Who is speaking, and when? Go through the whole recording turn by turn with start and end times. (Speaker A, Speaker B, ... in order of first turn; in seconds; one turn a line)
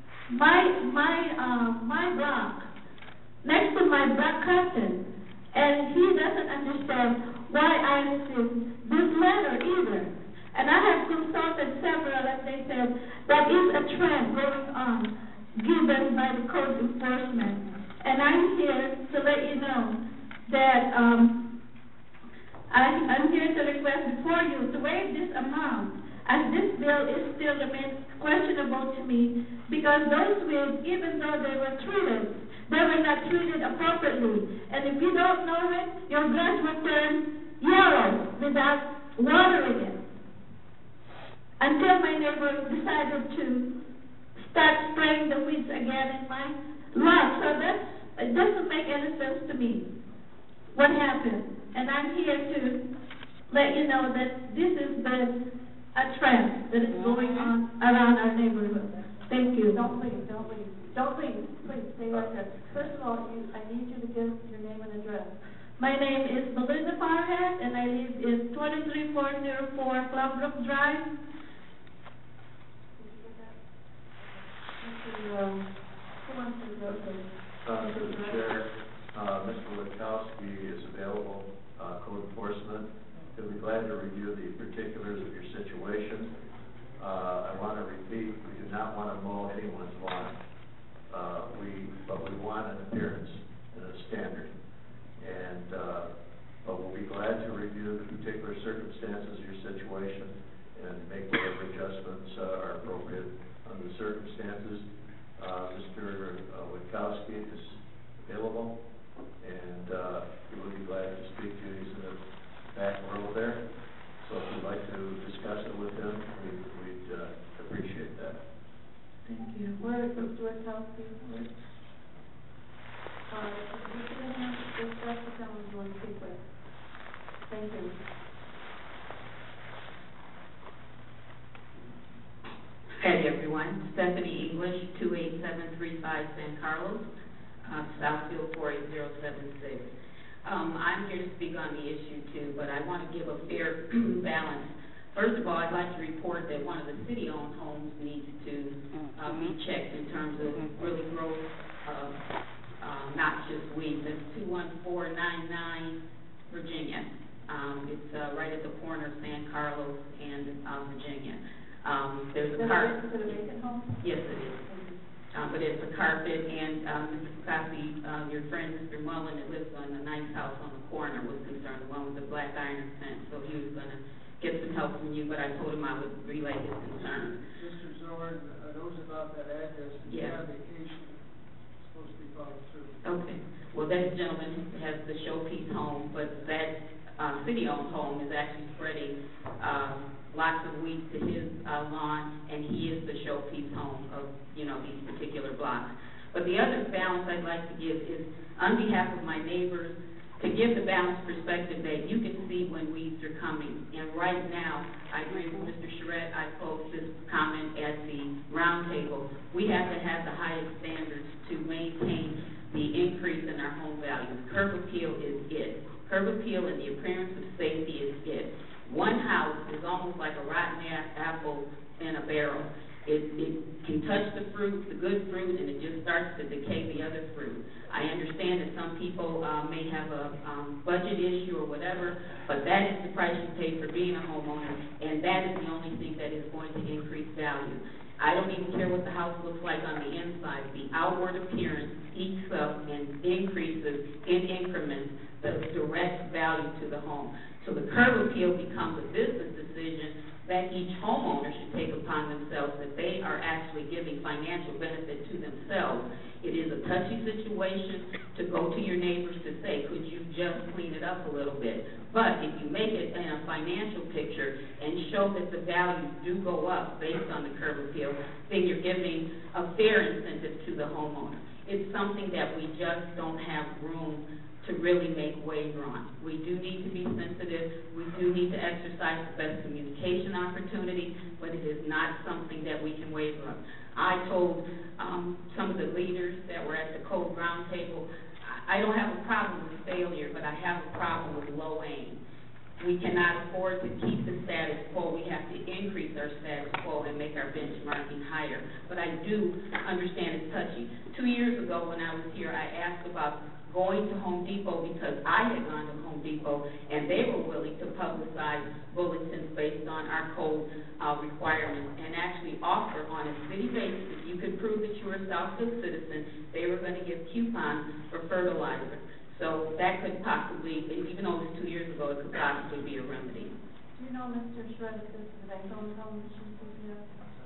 Speaker A: 0.3-2.7
Speaker A: 3.4-5.0
Speaker A: 5.5-19.9
Speaker A: 20.5-21.3
Speaker A: 22.7-40.0
Speaker A: 41.6-43.7
Speaker A: 44.4-49.8
Speaker A: 50.7-52.8
Speaker A: 53.5-55.3
Speaker A: 55.9-59.8
Speaker B: 56.8-57.5
Speaker C: 59.7-65.3
Speaker D: 62.1-62.8
Speaker A: 65.8-71.1
Speaker C: 73.0-73.5
Speaker C: 74.8-75.6
Speaker C: 76.2-78.5
Speaker D: 77.6-86.3
Speaker D: 87.0-90.4
Speaker D: 91.1-94.5
Speaker D: 95.2-96.1
Speaker D: 96.6-104.8
Speaker D: 105.4-108.8
Speaker D: 109.4-112.2
Speaker D: 112.7-113.6
Speaker D: 114.2-118.4
Speaker C: 119.8-121.5
Speaker C: 123.3-126.4
Speaker C: 127.5-128.0
Speaker E: 133.0-137.1
Speaker E: 137.6-139.9
Speaker E: 140.4-152.2
Speaker E: 152.8-163.4
Speaker C: 162.5-165.0
Speaker E: 164.0-164.6
Speaker E: 165.3-177.4
Speaker B: 177.5-181.2
Speaker E: 180.1-180.4
Speaker B: 181.8-183.0
Speaker E: 183.0-292.2
Speaker E: 292.8-323.5
Speaker C: 323.9-327.1